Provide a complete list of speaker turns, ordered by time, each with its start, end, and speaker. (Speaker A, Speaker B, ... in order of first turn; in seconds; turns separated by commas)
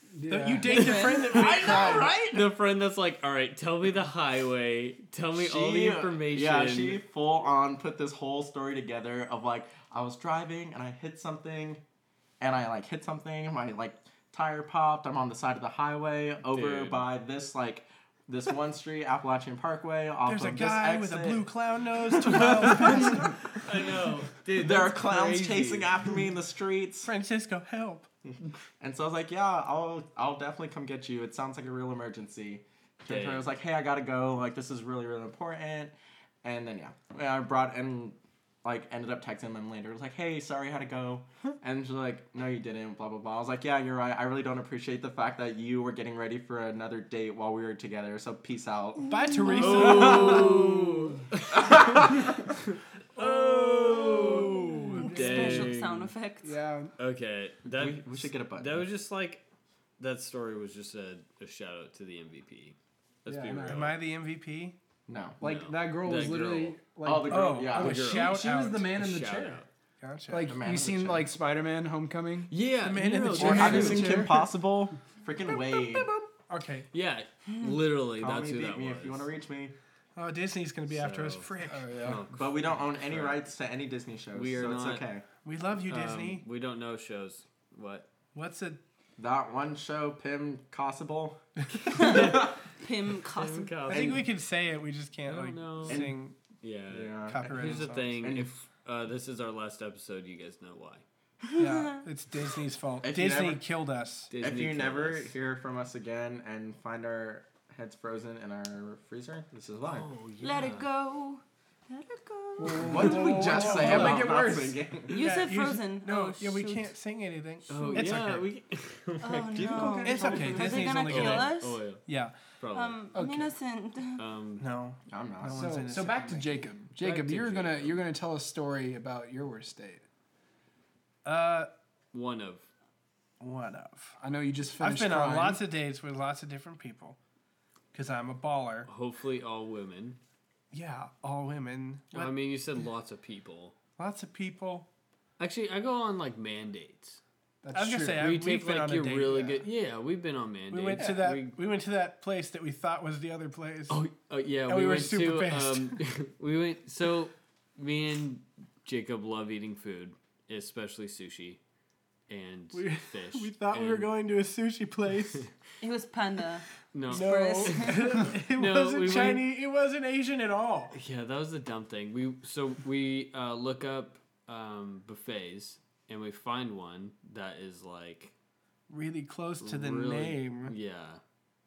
Speaker A: 0.1-1.0, Speaker B: 0.3-2.1, Speaker C: 0.7-1.5, Speaker D: 0.7-7.0, Speaker E: 1.7-2.1, Speaker E: 5.4-11.8, Speaker E: 12.4-21.5, Speaker D: 16.5-17.1, Speaker B: 20.3-23.6, Speaker E: 22.1-23.3, Speaker D: 22.2-26.1, Speaker E: 24.6-27.1, Speaker B: 27.0-28.1, Speaker E: 28.3-49.2, Speaker D: 33.1-33.5, Speaker B: 49.1-50.8, Speaker C: 49.2-50.0, Speaker D: 49.5-56.1, Speaker E: 49.8-50.5, Speaker A: 50.0-51.3, Speaker E: 51.6-51.9, Speaker A: 53.1-55.8, Speaker C: 55.0-56.6, Speaker A: 56.4-56.9, Speaker D: 57.0-59.4, Speaker E: 57.7-58.9, Speaker D: 60.0-64.0, Speaker A: 63.3-63.9, Speaker B: 63.6-64.8, Speaker E: 65.1-65.4, Speaker A: 65.4-69.6, Speaker D: 65.4-66.8, Speaker E: 67.0-68.0, Speaker B: 67.3-68.9, Speaker D: 67.8-69.7, Speaker B: 70.0-70.6, Speaker A: 70.3-72.5, Speaker E: 70.5-71.3, Speaker D: 72.5-74.2, Speaker B: 72.8-74.4, Speaker A: 73.3-74.3, Speaker E: 73.4-76.1, Speaker B: 75.5-76.9, Speaker D: 76.9-79.3, Speaker E: 78.2-79.8, Speaker B: 80.2-82.1, Speaker D: 80.9-83.4, Speaker A: 81.7-82.2, Speaker E: 82.3-85.2, Speaker D: 84.3-85.1, Speaker B: 85.5-86.4, Speaker D: 85.9-88.1, Speaker B: 88.3-88.8, Speaker E: 89.2-92.4, Speaker C: 91.9-94.1, Speaker D: 92.0-92.5, Speaker D: 93.3-94.3, Speaker B: 93.9-96.4, Speaker D: 95.3-101.0, Speaker E: 95.9-96.2, Speaker E: 96.9-98.5, Speaker B: 97.3-98.2, Speaker C: 101.5-102.0, Speaker B: 101.6-104.3, Speaker E: 103.0-103.6, Speaker D: 104.3-105.3, Speaker E: 104.4-110.1, Speaker D: 109.8-110.9, Speaker C: 110.4-113.7, Speaker A: 112.6-114.8, Speaker E: 112.8-115.4, Speaker B: 113.6-114.2, Speaker C: 115.1-116.9, Speaker B: 115.1-118.5, Speaker D: 117.7-122.0, Speaker C: 117.7-118.1, Speaker C: 119.2-121.8, Speaker E: 119.5-120.7, Speaker B: 120.0-122.3, Speaker D: 122.6-123.0, Speaker C: 122.7-124.2, Speaker A: 123.1-123.5, Speaker D: 124.2-124.7, Speaker B: 124.6-126.5, Speaker E: 125.1-125.8, Speaker A: 125.5-130.1, Speaker D: 127.0-128.0, Speaker B: 131.2-131.7, Speaker D: 132.1-132.7, Speaker B: 133.4-134.2, Speaker A: 134.2-135.6, Speaker B: 134.8-137.2, Speaker B: 137.9-138.9, Speaker D: 138.9-140.2, Speaker B: 140.7-142.3, Speaker D: 142.1-143.7, Speaker B: 144.0-144.9, Speaker D: 145.4-147.2, Speaker A: 147.6-148.2, Speaker B: 147.7-149.7, Speaker D: 148.1-151.6, Speaker B: 150.7-154.0, Speaker D: 153.9-161.6, Speaker B: 154.7-156.0, Speaker D: 162.3-164.1, Speaker B: 162.7-165.5, Speaker C: 165.8-168.2, Speaker D: 166.9-169.5, Speaker B: 167.1-170.9, Speaker D: 170.9-178.3, Speaker B: 178.9-180.7, Speaker D: 179.6-181.2